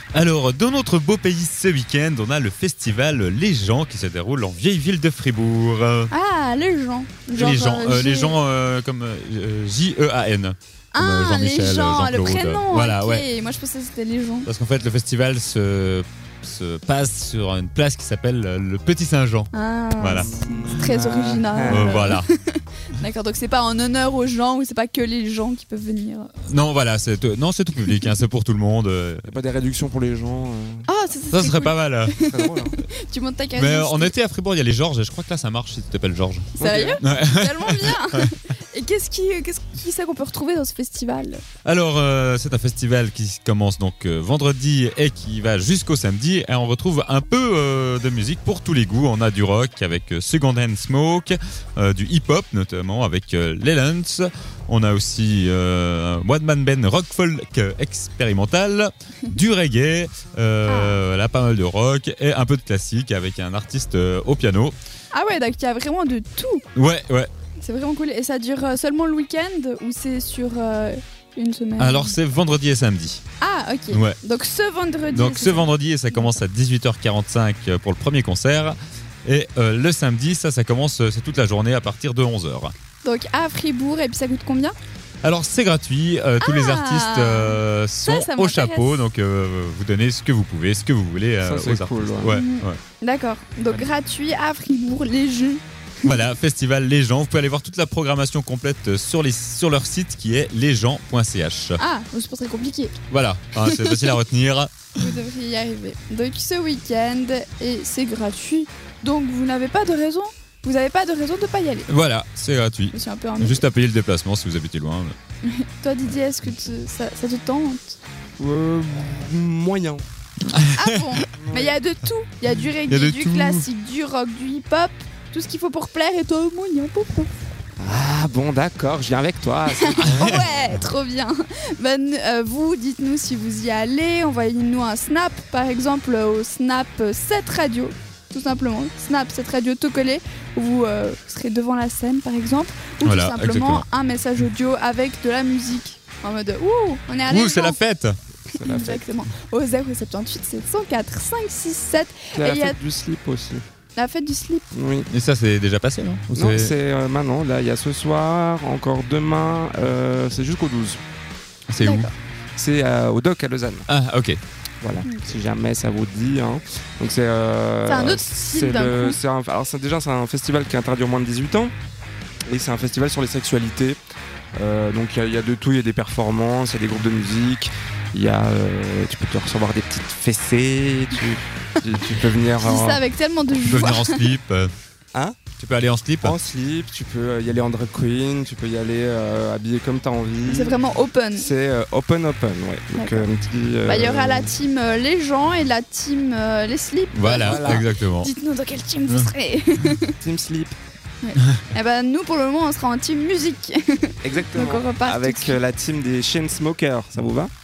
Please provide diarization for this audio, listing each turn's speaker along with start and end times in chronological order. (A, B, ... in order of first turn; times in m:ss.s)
0:00.1-0:06.1 A
0:06.1-0:08.4 B
0:07.3-0:13.2 A
0:10.9-0:14.5 B
0:14.4-0:20.3 A
0:19.5-0:26.3 B
0:20.3-0:22.0 C
0:21.7-0:22.3 A
0:26.5-0:29.2 A
0:29.2-0:30.9 C
0:30.9-0:34.1 B
0:31.3-0:32.2 A
0:32.2-0:32.7 C
0:33.6-0:36.5 A
0:36.6-0:41.4 B
0:36.6-0:37.0 C
0:37.0-0:38.3 A
0:41.6-1:04.7 A
1:00.6-1:01.0 B
1:05.1-1:06.6 B
1:06.8-1:07.3 A
1:07.6-1:12.2 B
1:11.8-1:13.2 A
1:13.4-1:15.7 B
1:13.9-1:14.2 A
1:15.1-1:22.7 A
1:23.0-1:24.7 B
1:25.2-1:32.8 A
1:26.4-1:29.0 B
1:31.4-1:32.3 C
1:32.2-1:36.2 B
1:36.0-1:41.8 A
1:41.8-1:43.0 B
1:43.1-1:44.7 A
1:43.6-1:44.1 B
1:45.0-1:51.9 B
1:51.9-1:55.1 A
1:52.9-1:53.6 B
1:55.4-1:58.0 B
1:58.4-2:00.0 C
2:00.5-2:01.2 A
2:00.7-2:07.3 B
2:01.3-2:01.8 C
2:02.8-2:03.6 A
2:07.8-2:10.7 C
2:09.8-2:27.8 B
2:10.0-2:10.4 A
2:23.0-2:23.8 A
2:27.3-2:28.1 A
2:28.5-2:29.2 C
2:28.6-2:32.8 B
2:32.4-2:33.6 C
2:34.0-2:34.7 B
2:34.7-2:35.1 C
2:35.1-2:36.7 A
2:36.3-2:41.0 C
2:41.7-2:42.1 A
2:41.8-2:42.1 B
2:42.6-2:43.8 C
2:43.9-2:44.4 A
2:44.8-2:51.7 C
2:45.0-2:45.3 B
2:47.8-2:49.2 B
2:52.5-2:54.0 C
2:54.6-3:03.0 C
3:02.6-3:04.3 B
3:03.6-3:04.7 A
3:05.1-3:05.4 C
3:05.5-3:06.4 A
3:06.2-3:10.8 C
3:10.4-3:11.5 B
3:11.3-3:14.5 C
3:12.9-3:13.3 B
3:13.8-3:20.2 B
3:17.1-3:18.3 A
3:17.4-3:17.9 C
3:20.2-3:20.8 C
3:21.2-3:25.6 B
3:24.2-3:27.5 C